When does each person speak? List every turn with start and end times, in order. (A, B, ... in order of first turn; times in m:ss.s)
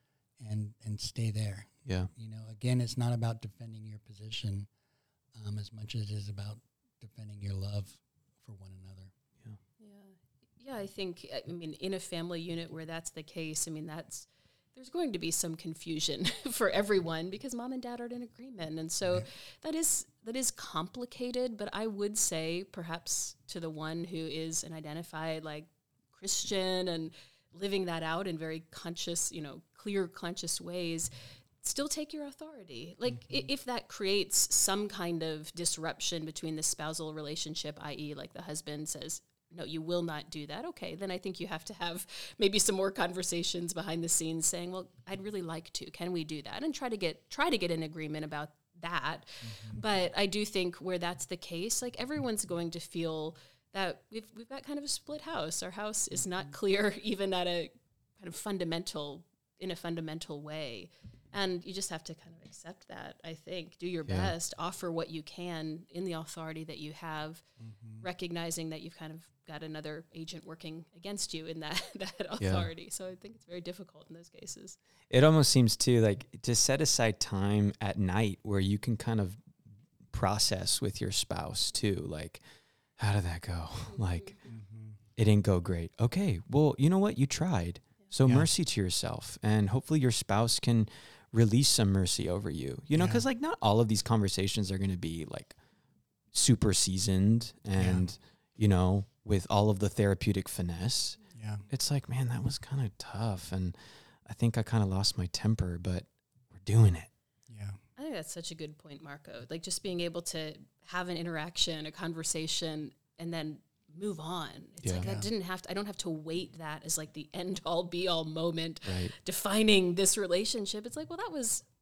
0:00.4-0:04.7 A
0:05.4-0:09.1 A
0:09.8-0:31.1 B
0:31.6-1:07.4 B
0:49.4-0:49.8 A
1:07.6-1:08.0 A
1:08.0-1:14.8 B
1:12.4-1:12.7 C
1:15.1-1:19.4 C
1:20.1-1:22.4 C
1:23.0-1:24.3 C
1:23.9-1:24.4 B
1:24.5-1:25.0 A
1:25.2-1:35.6 C
1:32.9-1:33.2 A
1:36.3-1:47.1 C
1:37.8-1:38.1 A
1:41.4-1:41.6 A
1:47.5-1:47.8 A
1:48.0-2:01.6 B
1:55.0-1:55.3 A
1:58.8-1:59.1 C